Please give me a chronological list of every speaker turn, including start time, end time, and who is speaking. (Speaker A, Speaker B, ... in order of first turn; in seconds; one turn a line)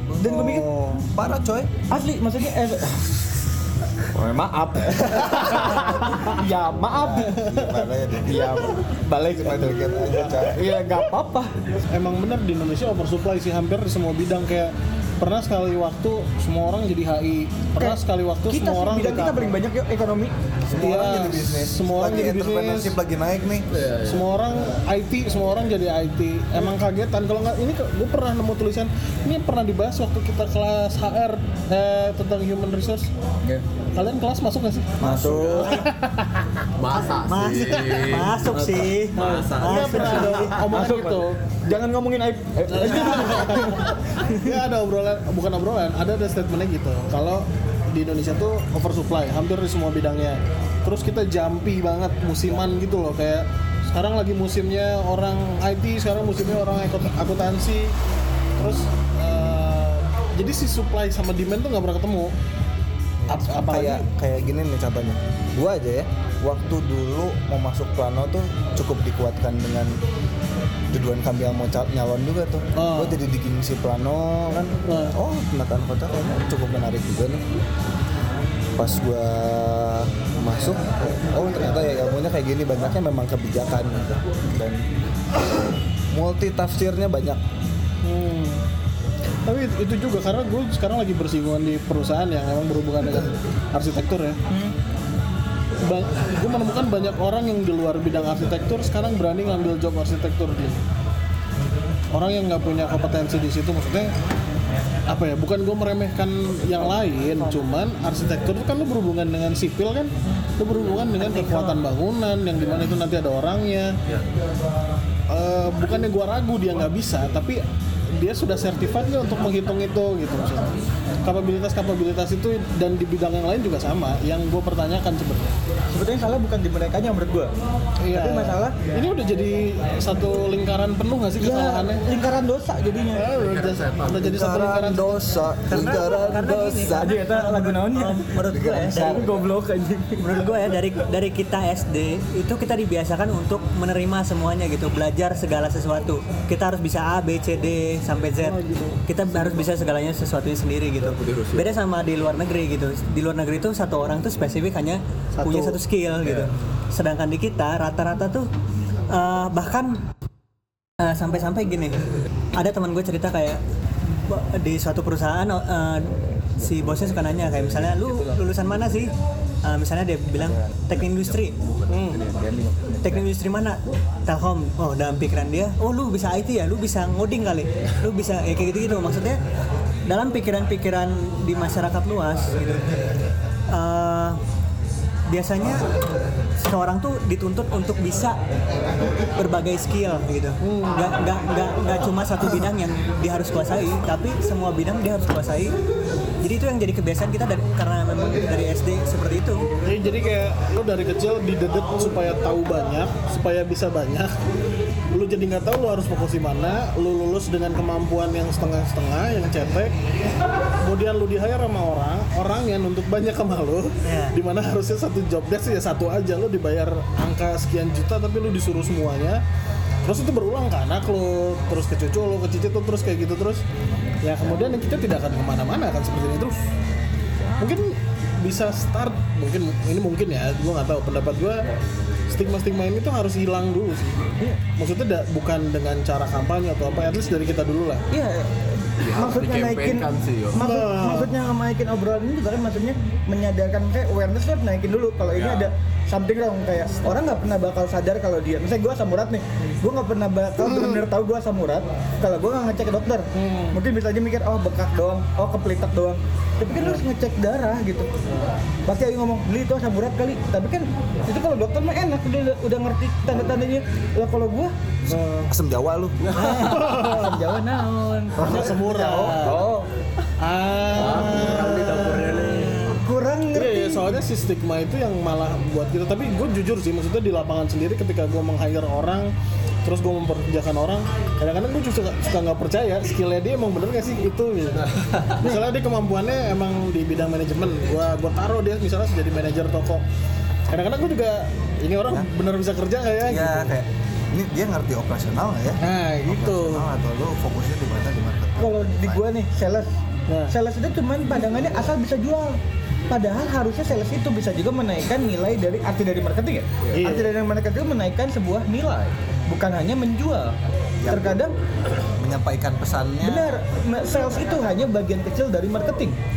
Speaker A: 0.1-1.7
Speaker B: 0.2-0.7
Speaker B: 1.9-3.0
Speaker B: 4.1-7.4
Speaker A: 5.0-5.4
Speaker A: 6.9-8.7
Speaker C: 7.4-7.8
Speaker B: 8.2-11.8
Speaker A: 9.3-10.6
Speaker C: 11.9-19.5
Speaker B: 17.8-20.3
Speaker A: 20.7-23.7
Speaker C: 20.8-22.9
Speaker D: 23.7-24.3
Speaker C: 24.1-33.1
Speaker C: 33.9-36.4
Speaker B: 35.0-35.8
Speaker A: 35.0-35.8
Speaker D: 36.8-39.9
Speaker E: 37.2-40.6
Speaker C: 39.3-41.4
Speaker B: 40.7-43.9
Speaker C: 42.7-57.9
Speaker C: 58.6-62.3
Speaker C: 63.3-64.0
Speaker A: 63.6-70.0
Speaker A: 70.9-77.4
Speaker C: 72.8-73.2
Speaker C: 74.9-75.1
Speaker A: 78.8-84.8
Speaker A: 86.1-87.4
Speaker C: 88.0-88.6
Speaker C: 89.5-94.4
Speaker B: 94.5-94.7
Speaker C: 95.8-100.8
Speaker C: 102.1-104.1
Speaker C: 105.1-113.9
Speaker C: 115.3-117.6
Speaker C: 118.2-125.5
Speaker B: 125.9-127.5
Speaker C: 128.0-132.0
Speaker B: 128.1-128.8
Speaker B: 131.4-133.2
Speaker C: 133.1-135.2
Speaker D: 133.3-134.4
Speaker A: 134.2-137.2
Speaker E: 135.7-139.3
Speaker B: 136.9-138.3
Speaker A: 138.4-139.3
Speaker B: 138.9-140.3
Speaker E: 140.2-158.5
Speaker C: 148.4-149.0
Speaker D: 151.0-151.8
Speaker C: 155.4-155.8
Speaker D: 156.2-156.5
Speaker E: 159.1-160.0
Speaker E: 161.0-162.0
Speaker E: 162.5-163.6
Speaker E: 164.3-171.6
Speaker A: 170.4-173.0
Speaker C: 171.9-172.2
Speaker E: 173.0-179.4
Speaker E: 180.1-182.6
Speaker E: 183.7-184.4
Speaker E: 185.3-185.8
Speaker E: 186.6-188.4
Speaker E: 189.3-195.7
Speaker C: 190.6-191.1
Speaker E: 196.4-199.6
Speaker C: 199.8-204.3
Speaker C: 205.1-209.9
Speaker C: 210.8-219.4
Speaker E: 214.1-214.3
Speaker C: 220.0-223.6
Speaker C: 224.2-226.6
Speaker C: 227.6-231.6
Speaker C: 232.3-234.2
Speaker C: 234.8-238.0
Speaker B: 238.1-258.1
Speaker D: 239.0-240.6
Speaker C: 240.6-241.3
Speaker C: 250.7-251.0
Speaker C: 253.3-253.8
Speaker B: 258.9-264.7
Speaker C: 265.1-265.5
Speaker A: 265.1-266.2
Speaker C: 266.3-267.5
Speaker B: 266.3-269.9
Speaker A: 268.4-269.4
Speaker C: 268.4-269.6
Speaker C: 270.4-271.7
Speaker D: 270.9-272.9
Speaker B: 271.0-274.2
Speaker C: 273.5-279.3
Speaker C: 279.8-284.9
Speaker C: 285.4-290.0
Speaker C: 290.7-293.6
Speaker A: 293.2-299.2
Speaker C: 295.8-296.8
Speaker B: 298.6-299.9
Speaker C: 300.3-300.5
Speaker B: 300.5-302.6
Speaker B: 303.1-310.5
Speaker C: 306.9-307.3
Speaker A: 311.0-311.4
Speaker B: 311.1-311.5
Speaker A: 312.2-313.6
Speaker B: 313.2-316.2